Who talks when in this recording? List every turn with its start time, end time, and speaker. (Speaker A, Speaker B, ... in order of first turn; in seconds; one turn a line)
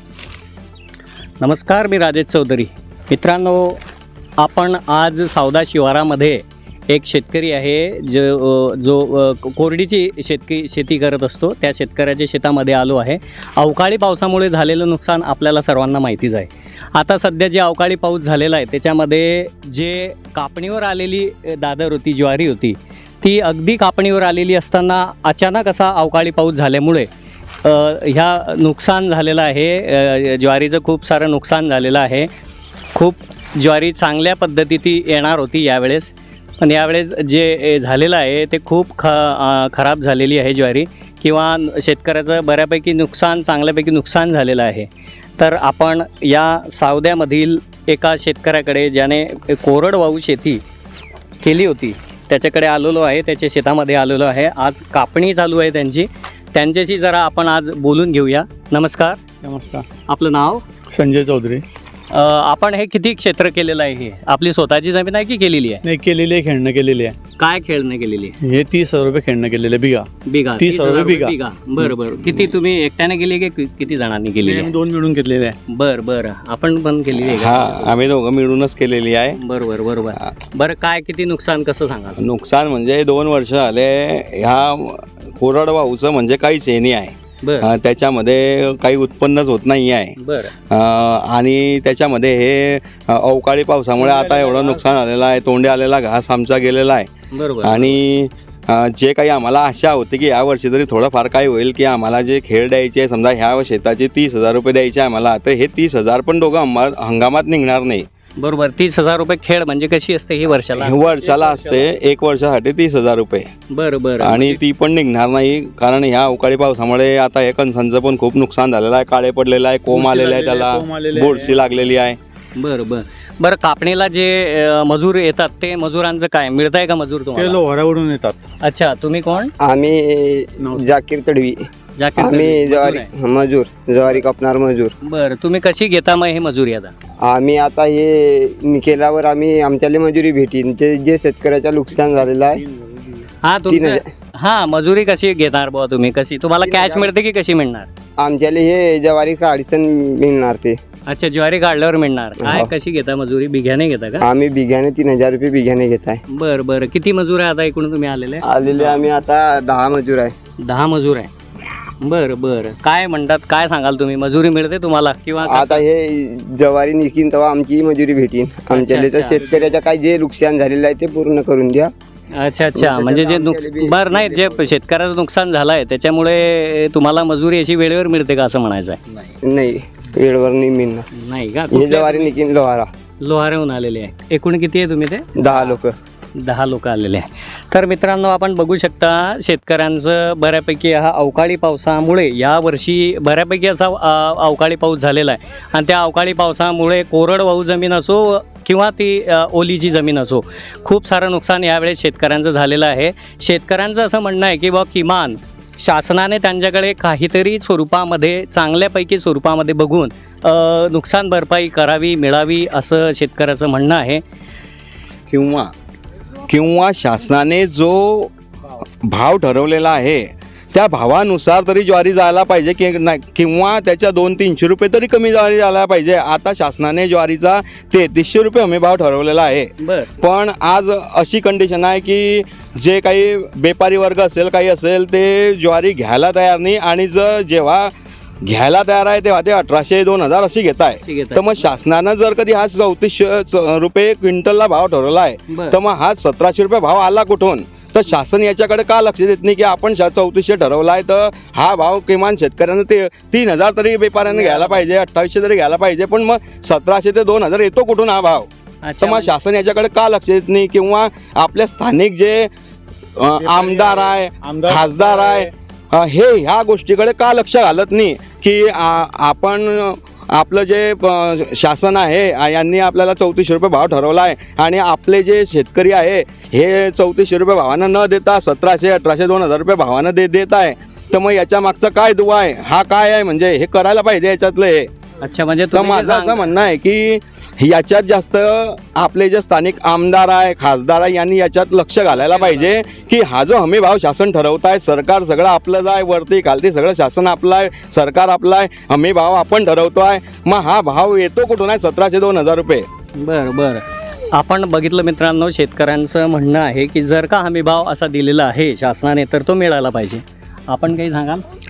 Speaker A: 1.4-3.8
Speaker A: 4.4-27.1
Speaker A: 27.6-32.3
Speaker A: 32.9-50.6
Speaker A: 51.4-59.2
Speaker B: 59.4-59.9
Speaker A: 60.1-60.6
Speaker B: 60.9-61.6
Speaker A: 62.1-65.8
Speaker B: 65.8-67.2
Speaker A: 67.4-68.4
Speaker B: 68.4-70.1
Speaker A: 70.2-74.7
Speaker B: 70.6-71.3
Speaker B: 74.4-75.5
Speaker A: 75.7-77.9
Speaker C: 77.2-79.4
Speaker A: 79.4-82.2
Speaker C: 82.2-90.2
Speaker A: 87.4-87.7
Speaker A: 90.2-90.5
Speaker C: 90.7-97.1
Speaker B: 94.0-94.8
Speaker A: 97.3-98.0
Speaker C: 97.6-108.1
Speaker A: 108.4-111.0
Speaker C: 110.8-113.5
Speaker B: 111.2-111.8
Speaker A: 113.7-114.6
Speaker C: 114.2-122.2
Speaker B: 119.9-121.6
Speaker A: 122.6-127.6
Speaker B: 127.3-128.4
Speaker A: 128.6-129.5
Speaker D: 129.6-131.7
Speaker B: 130.6-130.8
Speaker A: 132.0-133.1
Speaker D: 132.2-134.9
Speaker A: 135.0-136.9
Speaker D: 137.2-142.6
Speaker B: 142.5-143.3
Speaker A: 143.4-147.9
Speaker D: 143.7-144.0
Speaker D: 146.6-147.1
Speaker D: 148.2-150.8
Speaker A: 151.1-154.2
Speaker D: 152.4-152.7
Speaker D: 154.2-156.2
Speaker A: 156.3-159.1
Speaker D: 158.4-160.3
Speaker A: 160.6-161.3
Speaker A: 162.0-165.8
Speaker D: 165.4-171.9
Speaker A: 168.7-169.7
Speaker A: 172.3-179.0
Speaker D: 172.8-174.8
Speaker D: 179.4-181.1
Speaker A: 181.1-182.3
Speaker D: 181.7-182.9
Speaker A: 183.2-185.8
Speaker D: 185.4-185.9
Speaker A: 186.4-214.2
Speaker C: 215.3-215.7
Speaker C: 216.5-218.3
Speaker C: 219.0-258.5
Speaker A: 229.8-230.1
Speaker A: 241.0-241.7
Speaker A: 245.5-245.8
Speaker B: 254.4-254.8
Speaker A: 258.8-259.3
Speaker C: 259.0-262.5
Speaker C: 263.2-284.9
Speaker B: 263.4-265.5
Speaker A: 285.2-286.5
Speaker C: 285.7-302.9
Speaker A: 292.1-293.0
Speaker A: 303.2-311.4